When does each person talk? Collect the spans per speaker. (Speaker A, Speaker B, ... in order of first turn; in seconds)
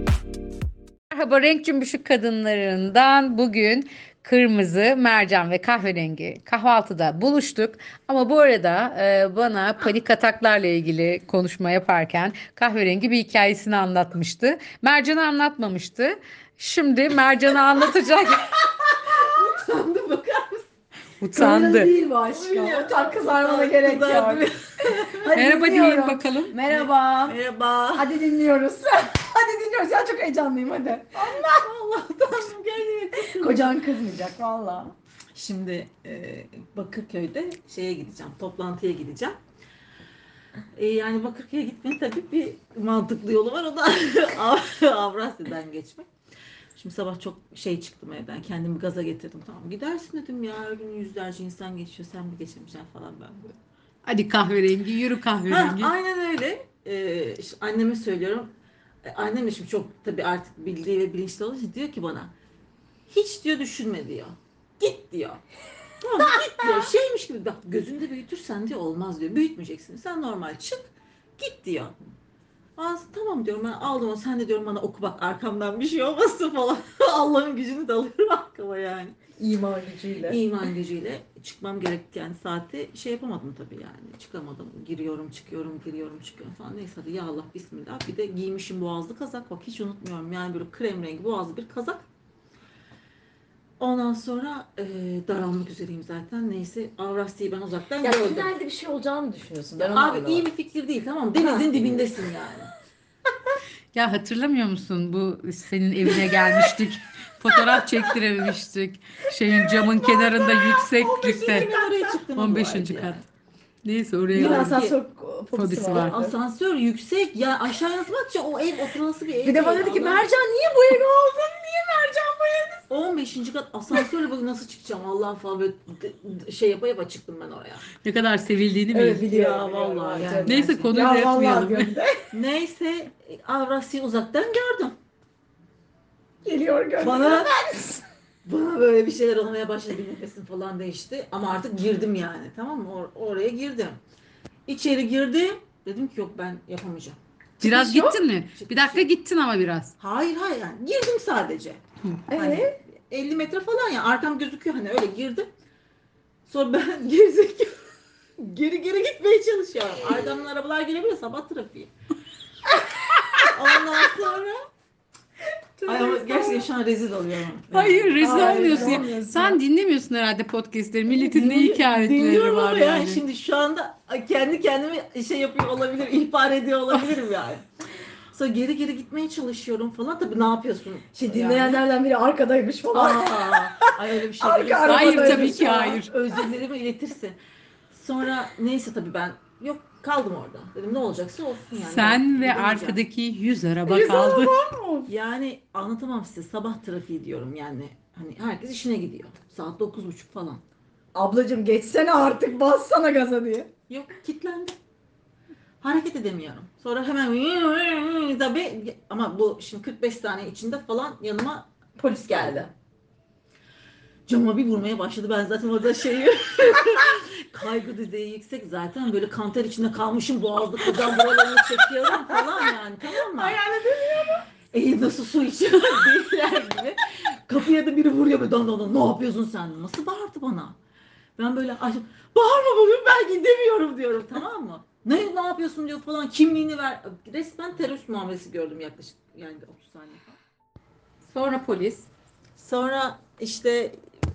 Speaker A: 1.1-18.6, 21.2-21.9, 25.3-26.5, 54.0-55.9, 79.4-80.4, 103.9-111.7, 112.3-113.2, 113.8-114.8, 115.5-116.1, 128.0-129.2, 130.4-131.9, 147.6-149.9, 165.8-166.6, 167.7-173.2, 184.8-186.1, 191.7-194.7, 241.2-242.1
Speaker B: 19.1-20.7, 22.1-25.4, 26.7-28.1, 31.1-33.7, 35.3-39.4, 40.8-46.1, 46.7-53.6, 55.5-58.5, 59.0-62.3, 63.1-65.4, 66.0-70.8, 71.4-72.0, 72.8-79.2, 80.2-92.0, 93.8-98.5, 99.8-102.7, 111.1-113.2, 114.3-115.0, 115.9-120.3, 122.9-127.8, 129.2-131.0, 132.3-134.9, 137.0-137.5, 138.4-144.0, 144.7-147.2, 147.7-149.1, 150.0-155.5, 156.5-157.8, 158.4-161.9, 163.5-164.6, 165.8-169.1, 171.2-177.7, 178.3-181.8, 182.9-187.4, 187.9-193.0, 195.1-200.6, 203.9-204.8, 205.8-212.7, 214.3-223.6, 224.7-230.8, 231.4-240.4, 242.6-243.9
Speaker C: 21.3-27.4, 27.9-31.6, 33.1-34.9, 98.0-100.5, 101.4-101.7, 109.5-112.2, 114.3-116.3, 119.4-123.1, 128.9-132.3, 136.4-138.0, 147.6-148.1, 152.3-152.7, 168.2-169.6, 181.3-186.4, 193.8-195.1, 201.1-203.7, 212.0-212.7, 220.9-224.4